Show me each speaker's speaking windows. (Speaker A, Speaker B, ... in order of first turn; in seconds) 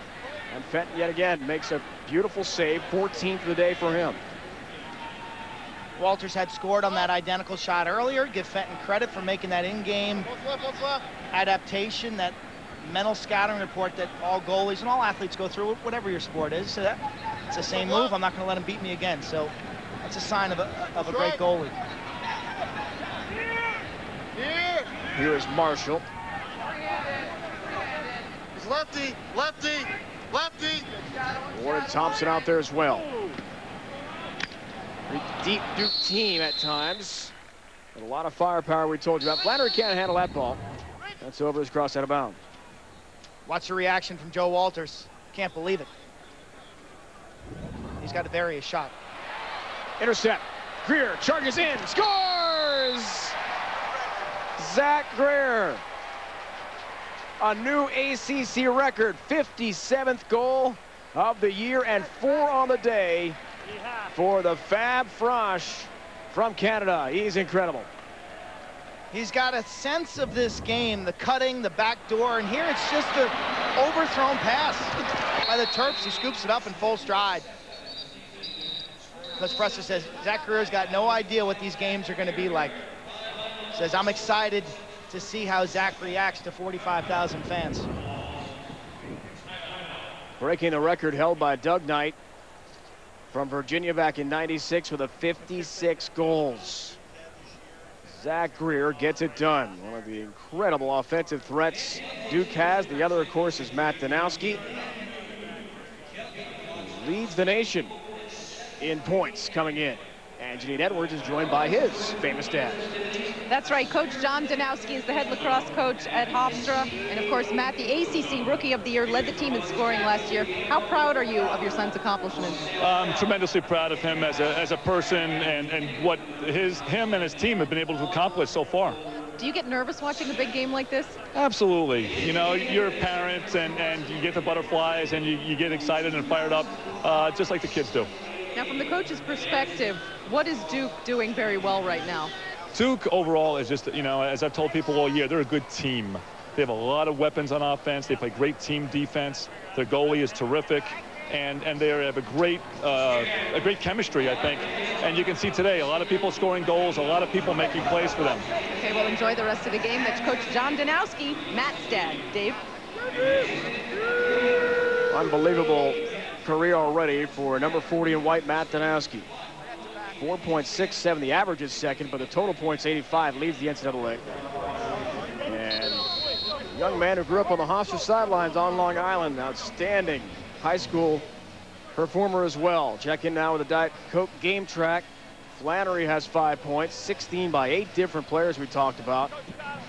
Speaker A: 0.5-4.2, 25.1-26.1, 31.5-33.1, 35.1-37.3, 37.9-40.6, 41.2-42.4, 50.0-53.4, 54.6-55.8, 57.4-63.4, 64.1-67.9, 90.4-92.2, 93.3-97.0, 98.0-104.6, 106.7-108.0, 108.8-112.8, 165.1-169.3, 170.2-174.2, 175.4-176.1, 176.7-181.3, 181.9-189.3
Speaker B: 6.0-10.3, 11.3-21.8, 43.5-45.9, 48.0-48.9, 69.1-77.5, 79.4-82.8, 83.7-87.9
Speaker C: 113.5-122.6, 129.4-131.2, 138.5-142.3, 158.7-162.6
Speaker D: 122.8-129.0, 131.3-138.1, 142.7-158.5